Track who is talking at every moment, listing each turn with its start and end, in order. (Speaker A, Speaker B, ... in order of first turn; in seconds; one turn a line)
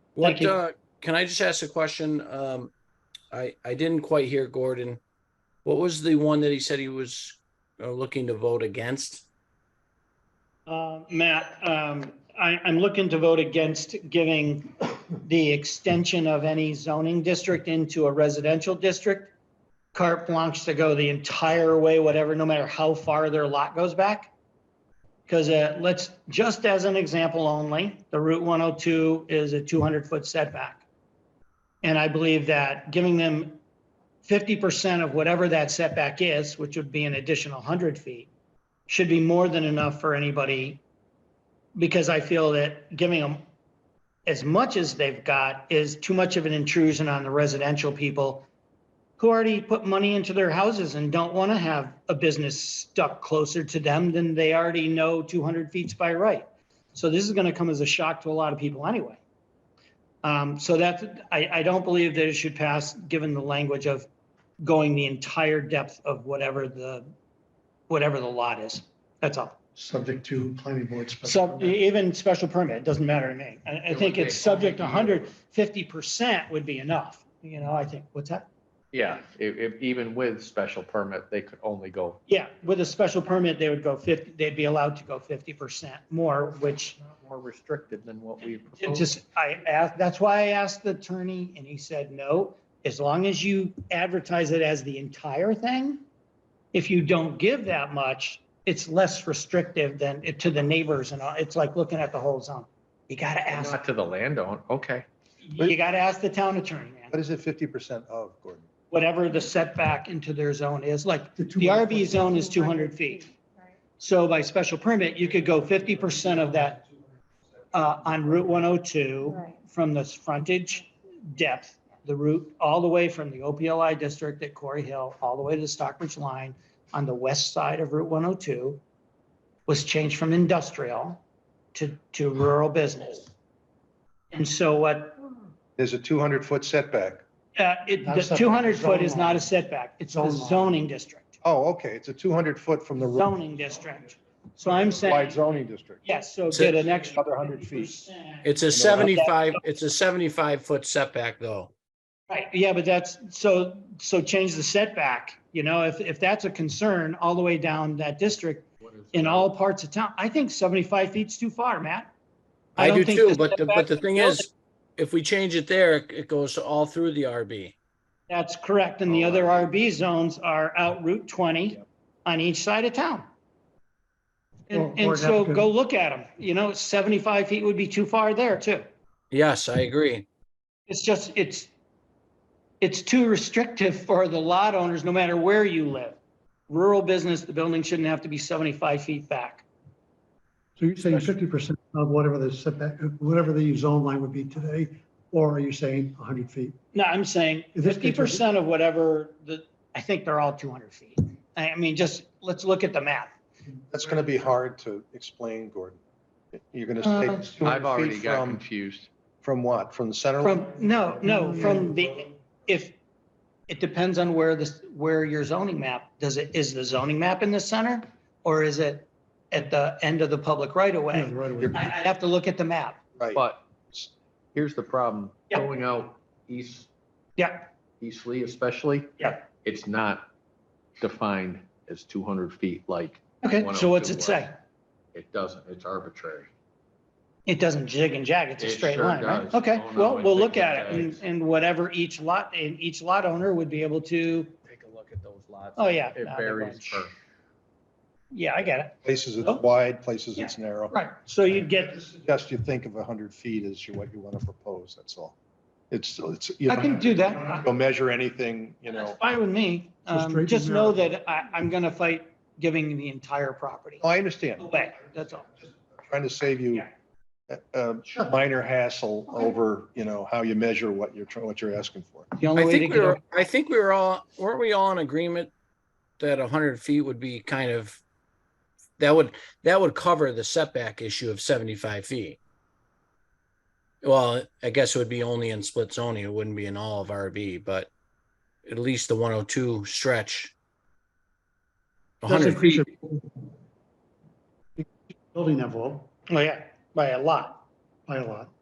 Speaker A: 0.2-2.7
Speaker B: 0.2-0.6
Speaker A: 3.3-5.0
Speaker A: 5.7-9.3
Speaker B: 10.7-19.3
Speaker B: 19.9-24.3
Speaker B: 25.3-30.9
Speaker B: 31.8-33.6
Speaker B: 34.2-38.3
Speaker B: 38.9-40.8
Speaker B: 41.8-43.4
Speaker B: 44.3-48.5
Speaker B: 49.2-59.2
Speaker B: 60.2-64.1
Speaker B: 64.6-67.1
Speaker B: 67.9-69.6
Speaker C: 69.8-71.8
Speaker B: 71.2-78.5
Speaker D: 73.9-75.3
Speaker D: 78.9-82.2
Speaker B: 82.3-87.0
Speaker D: 87.0-89.1
Speaker B: 88.8-96.0
Speaker B: 96.7-103.8
Speaker D: 103.5-105.1
Speaker B: 105.4-107.2
Speaker E: 107.1-108.7
Speaker B: 108.9-113.3
Speaker C: 111.4-112.5
Speaker B: 114.0-116.8
Speaker B: 117.7-128.8
Speaker B: 129.7-131.2
Speaker B: 131.7-133.3
Speaker B: 134.3-135.2
Speaker E: 135.8-137.2
Speaker B: 137.6-141.4
Speaker C: 138.0-139.4
Speaker C: 140.2-140.7
Speaker E: 141.4-143.3
Speaker B: 143.0-145.4
Speaker E: 144.8-146.0
Speaker B: 146.0-149.6
Speaker A: 146.5-146.8
Speaker E: 147.1-148.0
Speaker A: 148.4-151.7
Speaker E: 148.7-149.1
Speaker B: 152.3-162.1
Speaker D: 158.8-159.5
Speaker B: 162.8-164.5
Speaker A: 162.8-167.8
Speaker B: 168.3-173.3
Speaker D: 169.1-169.7
Speaker B: 174.7-178.8
Speaker C: 174.7-175.7
Speaker A: 179.3-180.3
Speaker B: 180.9-181.7
Speaker B: 182.8-186.2
Speaker B: 186.7-189.7
Speaker C: 190.8-196.8
Speaker B: 196.9-203.3
Speaker C: 197.8-198.4
Speaker E: 203.9-206.0
Speaker E: 206.5-208.6
Speaker B: 207.0-207.5
Speaker D: 207.6-209.1
Speaker E: 209.4-210.8
Speaker B: 210.4-213.0
Speaker C: 211.2-211.9
Speaker B: 213.7-223.0
Speaker C: 221.1-221.8
Speaker E: 223.2-223.4
Speaker D: 223.3-226.9
Speaker B: 227.4-227.7
Speaker D: 228.0-230.3
Speaker B: 229.2-229.5
Speaker D: 231.0-234.4
Speaker B: 233.4-234.6
Speaker D: 235.1-236.5
Speaker B: 237.5-244.6
Speaker D: 238.6-241.2
Speaker D: 244.7-247.1
Speaker B: 245.8-247.1
Speaker B: 248.3-249.6
Speaker E: 249.0-250.9
Speaker B: 250.3-252.0
Speaker E: 252.0-255.3
Speaker E: 255.9-259.2
Speaker B: 256.7-257.7
Speaker B: 258.9-264.0
Speaker C: 260.1-261.0
Speaker E: 264.0-264.7
Speaker B: 264.6-265.5
Speaker E: 266.0-266.9
Speaker E: 267.5-272.3
Speaker B: 272.4-273.2
Speaker A: 272.6-275.5
Speaker A: 276.2-278.0
Speaker A: 279.0-282.4
Speaker A: 284.0-287.9
Speaker A: 288.6-290.5
Speaker A: 292.2-292.9
Speaker C: 292.3-293.2
Speaker C: 294.8-296.1
Speaker B: 296.3-297.6
Speaker C: 298.1-298.5